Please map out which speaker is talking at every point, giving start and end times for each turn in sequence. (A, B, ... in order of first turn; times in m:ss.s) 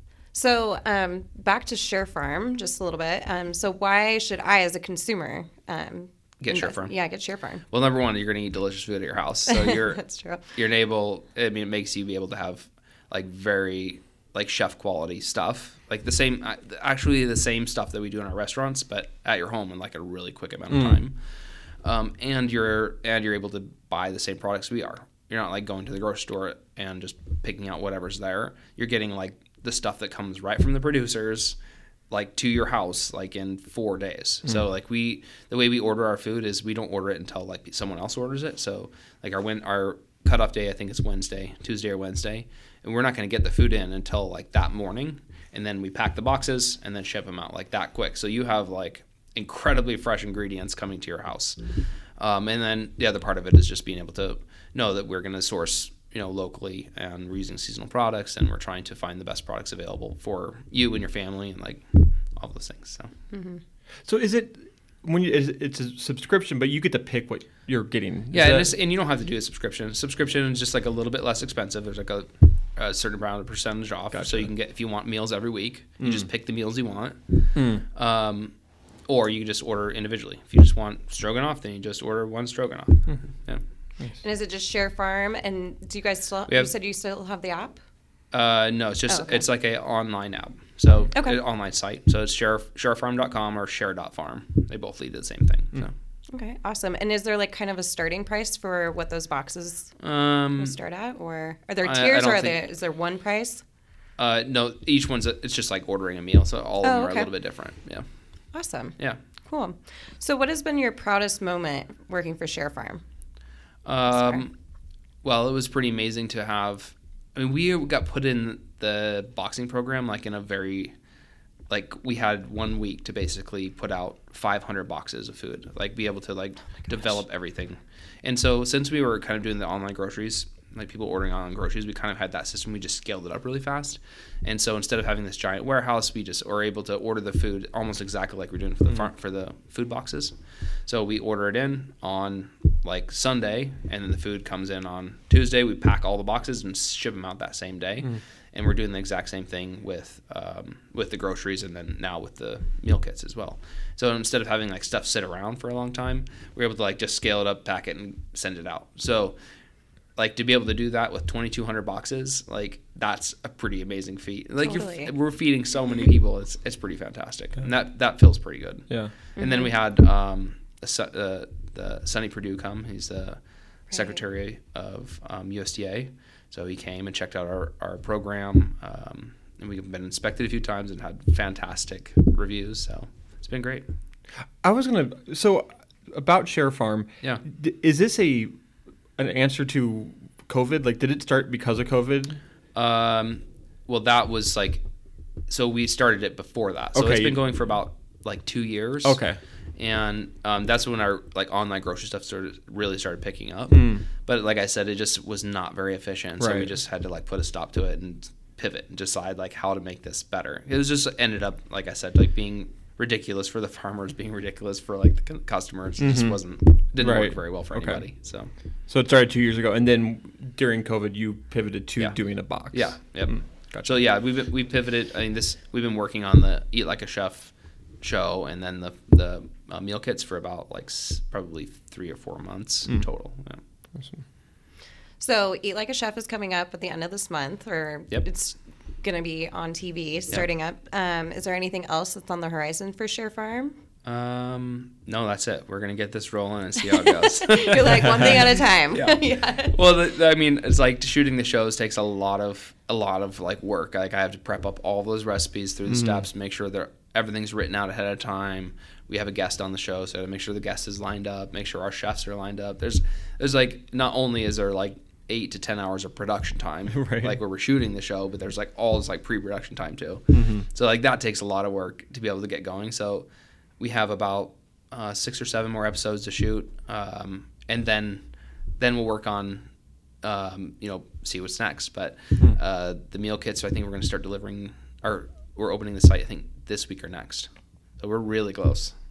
0:00.3-0:07.6 A
0:06.4-0:07.0 B
0:07.6-0:31.6 B
0:09.5-0:10.4 A
0:20.7-0:21.0 C
0:32.1-1:03.1 B
1:03.3-1:03.6 A
1:04.0-1:08.7 C
1:08.3-1:18.5 B
1:14.1-1:14.5 C
1:16.0-1:16.3 C
1:17.5-1:17.8 C
1:19.1-1:23.6 B
1:24.2-1:27.8 A
1:28.3-1:35.9 B
1:29.1-1:29.4 A
1:36.3-1:40.0 A
1:40.0-1:40.8 B
1:40.6-1:43.6 A
1:41.8-1:42.6 B
1:44.2-1:48.0 B
1:46.8-1:47.3 A
1:48.5-1:53.0 A
1:53.8-1:54.5 B
1:54.1-1:54.4 A
1:55.2-2:00.9 B
2:01.7-2:20.3 B
2:20.8-2:39.4 B
2:40.2-2:53.4 B
2:44.6-2:45.1 A
2:49.4-2:49.7 A
2:53.9-2:54.2 A
2:53.9-3:03.8 B
3:04.6-3:08.5 C
3:09.2-3:12.4 C
3:12.7-3:14.8 B
3:15.5-3:19.2 B
3:16.9-3:17.4 C
3:19.0-3:19.4 C
3:19.8-3:38.5 B
3:23.7-3:24.0 C
3:26.4-3:26.7 C
3:36.0-3:36.4 C
3:37.0-3:38.0 C
3:38.9-3:44.0 C
3:42.0-3:53.6 B
3:54.0-3:54.2 C
3:55.2-4:03.7 A
4:04.0-4:33.3 B
4:06.8-4:09.8 A
4:15.9-4:16.2 C
4:26.9-4:27.4 C
4:30.3-4:30.6 C
4:33.8-4:38.2 B
4:38.8-4:39.6 B
4:40.2-4:48.9 B